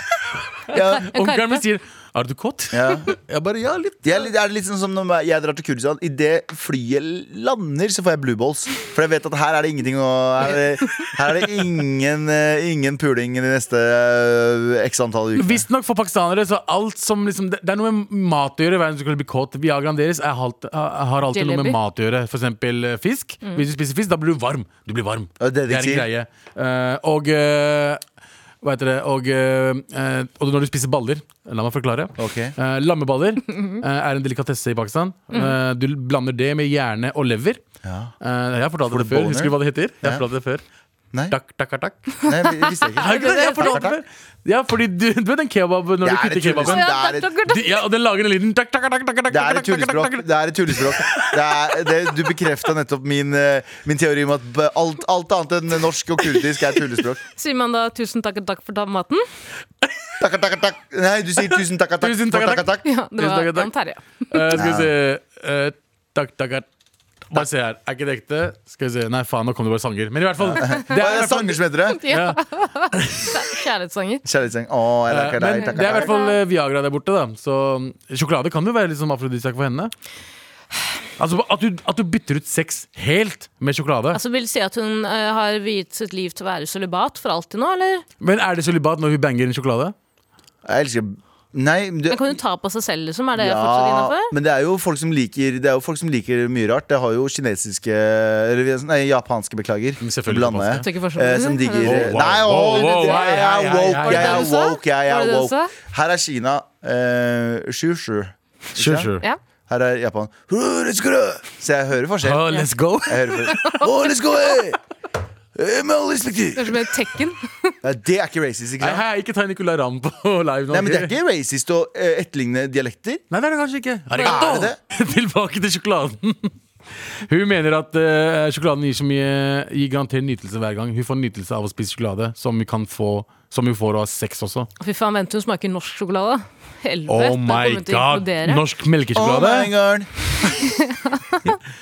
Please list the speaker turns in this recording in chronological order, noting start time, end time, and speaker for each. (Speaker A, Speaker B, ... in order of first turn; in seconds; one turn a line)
Speaker A: 0.7-1.1
Speaker B: 0.7-1.6
Speaker C: 1.1-4.2
Speaker A: 2.7-3.0
Speaker A: 4.0-15.6
Speaker C: 15.3-28.0
Speaker B: 21.3-21.8
Speaker A: 25.4-26.1
Speaker C: 28.6-37.6
Speaker A: 32.2-32.5
Speaker A: 37.8-38.1
Speaker C: 38.2-40.6
Speaker A: 38.9-40.2
Speaker C: 41.3-42.0
Speaker A: 42.2-44.0
Speaker B: 42.6-43.8
Speaker C: 43.0-46.9
Speaker A: 46.0-47.3
Speaker B: 46.7-47.8
Speaker C: 47.5-51.7
Speaker A: 49.3-57.2
Speaker B: 57.4-59.2
Speaker A: 60.2-62.8
Speaker C: 62.0-63.7
Speaker B: 62.8-64.5
Speaker C: 64.3-66.7
Speaker A: 64.5-64.9
Speaker C: 67.3-72.4
Speaker A: 70.4-72.0
Speaker B: 71.9-74.2
Speaker C: 72.9-73.3
Speaker A: 74.2-76.1
Speaker C: 75.1-79.9
Speaker B: 75.7-76.4
Speaker C: 81.2-84.2
Speaker B: 84.1-88.0
Speaker C: 88.2-89.9
Speaker A: 90.6-92.4
Speaker B: 92.1-94.3
Speaker A: 93.3-109.1
Speaker C: 100.0-100.8
Speaker B: 100.8-103.5
Speaker C: 101.8-104.6
Speaker B: 104.0-105.7
Speaker C: 108.8-109.2
Speaker A: 109.7-114.8
Speaker C: 112.2-113.5
Speaker B: 113.3-113.9
Speaker A: 115.5-116.8
Speaker B: 116.5-117.7
Speaker A: 117.8-119.0
Speaker C: 118.8-121.1
Speaker A: 120.7-123.2
Speaker C: 123.3-126.5
Speaker A: 124.2-124.8
Speaker C: 127.2-134.7
Speaker B: 134.8-138.6
Speaker C: 137.1-139.7
Speaker A: 139.1-140.1
Speaker B: 140.6-141.6